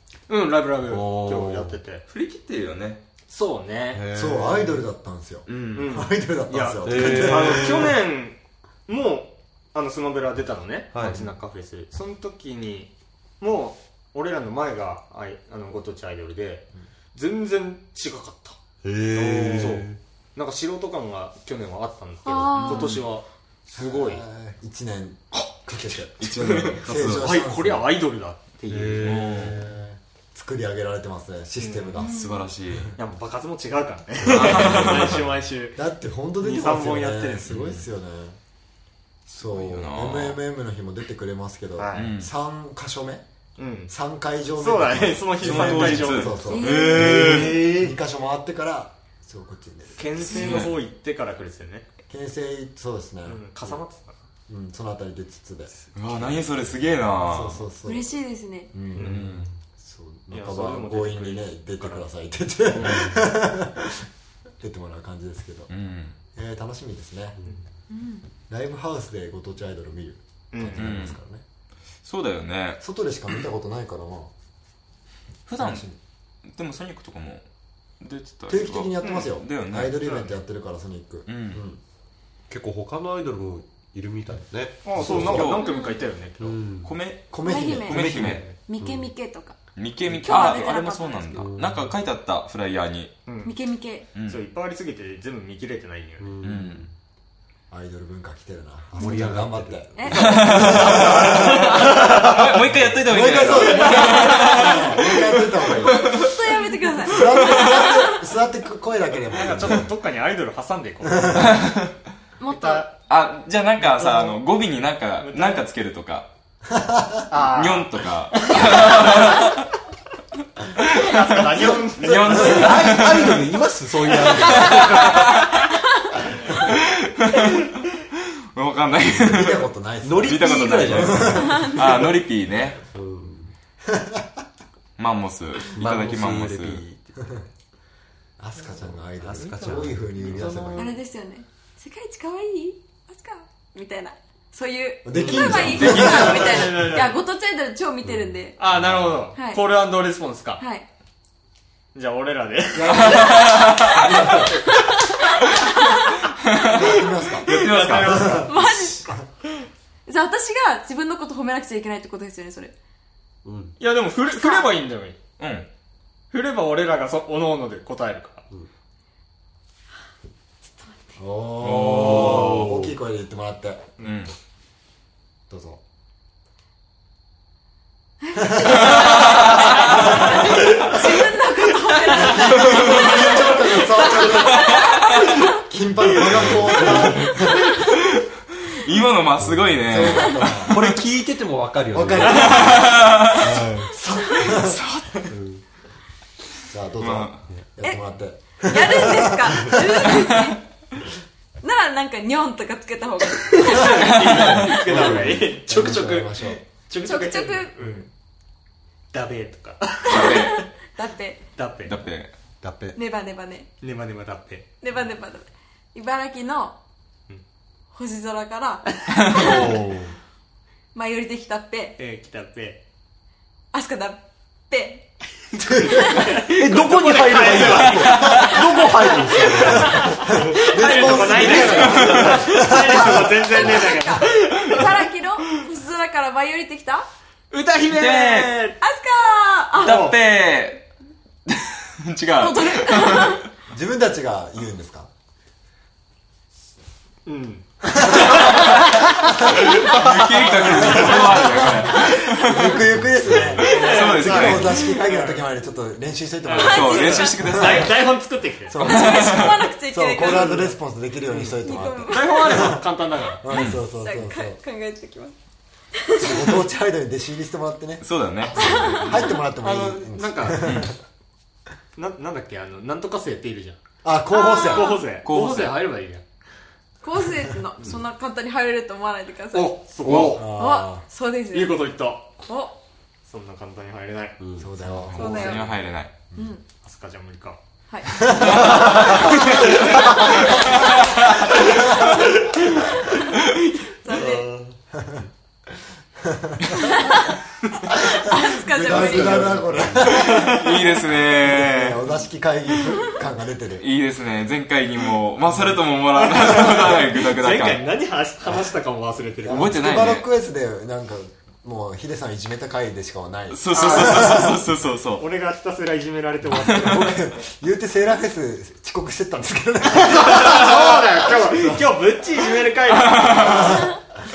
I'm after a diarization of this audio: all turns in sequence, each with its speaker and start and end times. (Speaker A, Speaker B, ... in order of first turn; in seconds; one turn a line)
Speaker A: 0.3-2.0
Speaker B: 0.9-1.8
Speaker C: 2.1-3.0
Speaker A: 3.3-4.0
Speaker B: 3.9-4.8
Speaker D: 4.1-7.9
Speaker C: 5.5-6.0
Speaker A: 5.8-18.6
Speaker B: 6.8-8.0
Speaker B: 10.9-11.3
Speaker B: 18.8-20.0
Speaker A: 19.1-24.2
Speaker E: 22.3-23.0
Speaker C: 22.6-23.0
Speaker D: 23.8-27.9
Speaker C: 26.2-27.4
Speaker A: 26.4-29.3
Speaker B: 28.7-29.8
Speaker C: 29.0-29.7
Speaker D: 29.5-32.2
Speaker A: 31.6-32.0
Speaker E: 32.0-32.5
Speaker C: 32.0-33.0
Speaker A: 33.0-35.8
Speaker C: 34.2-35.3
Speaker D: 34.5-35.0
Speaker D: 35.8-38.4
Speaker A: 36.4-37.5
Speaker C: 37.5-37.9
Speaker D: 39.3-43.2
Speaker C: 39.5-40.4
Speaker A: 41.8-42.1
Speaker C: 42.0-42.3
Speaker A: 43.6-43.9
Speaker D: 43.9-50.6
Speaker A: 44.6-46.5
Speaker C: 45.4-47.6
Speaker E: 46.5-47.3
Speaker B: 46.7-47.9
Speaker A: 50.0-51.9
Speaker C: 50.3-50.8
Speaker D: 52.1-53.7
Speaker A: 53.3-54.2
Speaker D: 54.5-55.7
Speaker C: 55.9-57.7
Speaker D: 57.3-58.1
Speaker E: 57.8-58.7
Speaker D: 58.7-64.1
Speaker A: 58.9-59.5
Speaker C: 59.0-59.5
Speaker A: 60.3-62.0
Speaker A: 62.8-63.1
Speaker B: 62.8-63.2
Speaker D: 64.6-65.7
Speaker C: 65.7-66.2
Speaker D: 66.3-67.4
Speaker E: 67.9-68.2
Speaker D: 68.5-71.4
Speaker A: 70.5-71.0
Speaker C: 70.8-71.2
Speaker C: 72.0-72.8
Speaker D: 72.8-74.3
Speaker C: 75.5-75.9
Speaker D: 75.6-76.0
Speaker C: 76.5-77.4
Speaker C: 78.0-80.0
Speaker D: 78.5-81.8
Speaker A: 79.0-79.3
Speaker A: 80.0-80.3
Speaker C: 81.3-81.6
Speaker B: 82.5-85.5
Speaker A: 84.8-86.6
Speaker C: 85.1-85.7
Speaker E: 85.6-86.0
Speaker B: 86.4-86.9
Speaker C: 86.8-88.5
Speaker D: 87.3-88.4
Speaker E: 87.4-89.6
Speaker B: 87.9-89.1
Speaker C: 89.8-93.2
Speaker B: 90.1-90.5
Speaker E: 90.2-91.5
Speaker B: 91.4-92.0
Speaker A: 93.3-93.5
Speaker E: 93.4-94.1
Speaker A: 94.1-96.3
Speaker C: 94.2-94.4
Speaker B: 96.2-96.9
Speaker C: 96.4-96.9
Speaker D: 97.7-106.3
Speaker B: 99.0-99.9
Speaker E: 99.9-100.9
Speaker A: 100.1-101.4
Speaker C: 100.1-106.3
Speaker B: 100.9-101.3
Speaker E: 103.7-104.8
Speaker E: 105.8-108.3
Speaker D: 107.0-109.9
Speaker A: 109.2-111.5
Speaker D: 111.0-111.6
Speaker C: 111.4-111.9
Speaker E: 112.4-112.9
Speaker A: 112.5-112.9
Speaker C: 113.1-116.3
Speaker A: 113.8-114.3
Speaker A: 115.2-115.7
Speaker D: 116.7-117.2
Speaker A: 117.3-119.5
Speaker C: 117.5-119.7
Speaker C: 120.9-123.5
Speaker A: 120.9-122.9
Speaker B: 122.3-125.3
Speaker C: 124.1-125.6
Speaker A: 124.5-125.2
Speaker C: 126.6-127.7
Speaker C: 128.5-129.7
Speaker D: 129.1-131.7
Speaker B: 130.0-132.1
Speaker C: 130.2-132.8
Speaker E: 131.4-131.8
Speaker B: 132.8-133.5
Speaker D: 133.9-134.3
Speaker C: 135.0-136.8
Speaker B: 135.8-137.4
Speaker D: 138.4-141.0
Speaker B: 139.2-141.0
Speaker E: 140.8-148.6
Speaker D: 145.1-146.8
Speaker A: 145.3-147.1
Speaker C: 145.8-146.2
Speaker A: 148.6-150.6
Speaker E: 149.3-149.6
Speaker E: 150.6-150.9
Speaker A: 151.9-153.4
Speaker D: 152.7-154.7
Speaker C: 153.1-154.2
Speaker E: 154.7-156.2
Speaker C: 156.5-158.4
Speaker D: 156.7-157.5
Speaker A: 157.4-158.6
Speaker D: 158.0-158.5
Speaker E: 158.4-159.2
Speaker E: 160.1-162.7
Speaker B: 163.4-163.8
Speaker A: 163.8-165.2
Speaker E: 164.3-164.7
Speaker C: 165.4-165.7
Speaker A: 166.3-168.4
Speaker E: 170.8-171.2
Speaker D: 171.2-173.9
Speaker C: 171.6-172.8
Speaker B: 171.8-172.9
Speaker A: 174.0-174.2
Speaker C: 174.0-174.3
Speaker D: 175.5-175.8
Speaker E: 178.2-185.6
Speaker D: 178.4-181.1
Speaker C: 178.8-180.3
Speaker D: 182.1-187.7
Speaker C: 182.4-183.4
Speaker C: 184.6-185.2
Speaker B: 186.3-187.3
Speaker C: 187.7-191.0
Speaker B: 189.4-190.1
Speaker D: 189.9-190.8
Speaker B: 190.7-193.9
Speaker D: 191.9-194.8
Speaker C: 192.3-193.5
Speaker C: 194.5-195.3
Speaker B: 195.3-195.6
Speaker D: 196.7-200.1
Speaker C: 197.0-197.5
Speaker E: 198.6-200.6
Speaker C: 200.1-200.5
Speaker E: 201.6-205.0
Speaker A: 203.4-208.1
Speaker C: 204.2-204.6
Speaker D: 204.9-206.6
Speaker B: 205.0-205.3
Speaker E: 207.0-207.7
Speaker A: 209.1-210.6
Speaker C: 210.1-210.7
Speaker E: 210.1-211.5
Speaker A: 211.6-212.0
Speaker C: 211.9-212.3
Speaker B: 212.6-213.0
Speaker E: 212.9-213.7
Speaker A: 213.8-214.7
Speaker E: 214.8-216.8
Speaker E: 217.9-219.7
Speaker B: 219.3-220.2
Speaker E: 220.9-222.0
Speaker A: 222.0-222.8
Speaker E: 223.7-225.1
Speaker A: 225.5-234.8
Speaker E: 225.9-226.3
Speaker B: 226.4-230.1
Speaker C: 228.0-228.3
Speaker E: 228.3-228.6
Speaker E: 229.5-229.9
Speaker D: 230.0-233.6
Speaker E: 230.7-232.1
Speaker C: 231.4-232.5
Speaker E: 233.5-237.1
Speaker A: 237.5-238.8
Speaker C: 237.9-238.7
Speaker E: 238.8-240.1
Speaker A: 239.8-240.2
Speaker C: 239.8-240.9
Speaker C: 241.5-243.4
Speaker E: 242.4-243.5
Speaker D: 243.7-245.1
Speaker A: 247.3-248.8
Speaker D: 247.9-250.1
Speaker C: 248.3-249.0
Speaker C: 249.5-252.9
Speaker A: 249.5-249.9
Speaker D: 250.6-257.9
Speaker A: 253.6-255.5
Speaker C: 253.7-254.9
Speaker A: 256.4-258.8
Speaker E: 256.6-257.6
Speaker C: 256.6-258.0
Speaker D: 258.7-262.8
Speaker E: 258.8-260.6
Speaker C: 258.8-259.7
Speaker A: 260.1-260.8
Speaker A: 261.3-263.4
Speaker E: 261.6-262.8
Speaker D: 263.4-264.6
Speaker C: 263.5-263.8
Speaker E: 263.6-265.4
Speaker E: 265.9-266.6
Speaker D: 266.2-270.9
Speaker C: 268.0-269.0
Speaker E: 268.5-269.4
Speaker A: 268.6-270.8
Speaker C: 270.6-270.9
Speaker A: 272.0-273.8
Speaker D: 274.0-275.0
Speaker E: 274.3-275.1
Speaker A: 274.6-276.2
Speaker C: 275.2-275.8
Speaker E: 277.0-279.8
Speaker A: 279.5-280.5
Speaker B: 280.1-280.4
Speaker D: 280.3-281.1
Speaker E: 280.4-281.8
Speaker A: 281.5-282.3
Speaker E: 282.4-282.8
Speaker A: 283.3-284.4
Speaker B: 284.4-284.7
Speaker D: 284.6-285.6
Speaker C: 285.0-286.1
Speaker A: 285.1-285.6
Speaker E: 285.1-285.7
Speaker E: 286.4-286.6
Speaker A: 286.8-287.6
Speaker E: 287.9-290.3
Speaker D: 288.4-289.4
Speaker C: 288.6-289.8
Speaker A: 289.0-289.8
Speaker C: 290.7-291.4
Speaker D: 291.6-292.2
Speaker E: 293.9-294.6
Speaker D: 294.1-295.3
Speaker D: 296.2-297.0
Speaker E: 296.7-297.3
Speaker E: 297.9-299.5
Speaker D: 298.0-300.8
Speaker B: 298.8-300.2
Speaker C: 300.1-302.1
Speaker D: 301.3-303.9
Speaker C: 303.8-307.9
Speaker A: 306.2-309.7
Speaker C: 309.5-310.3
Speaker D: 309.5-314.6
Speaker C: 313.5-315.2
Speaker A: 313.7-314.5
Speaker A: 315.2-317.1
Speaker D: 316.5-321.9
Speaker A: 320.0-323.9
Speaker C: 322.9-323.8
Speaker D: 323.4-324.0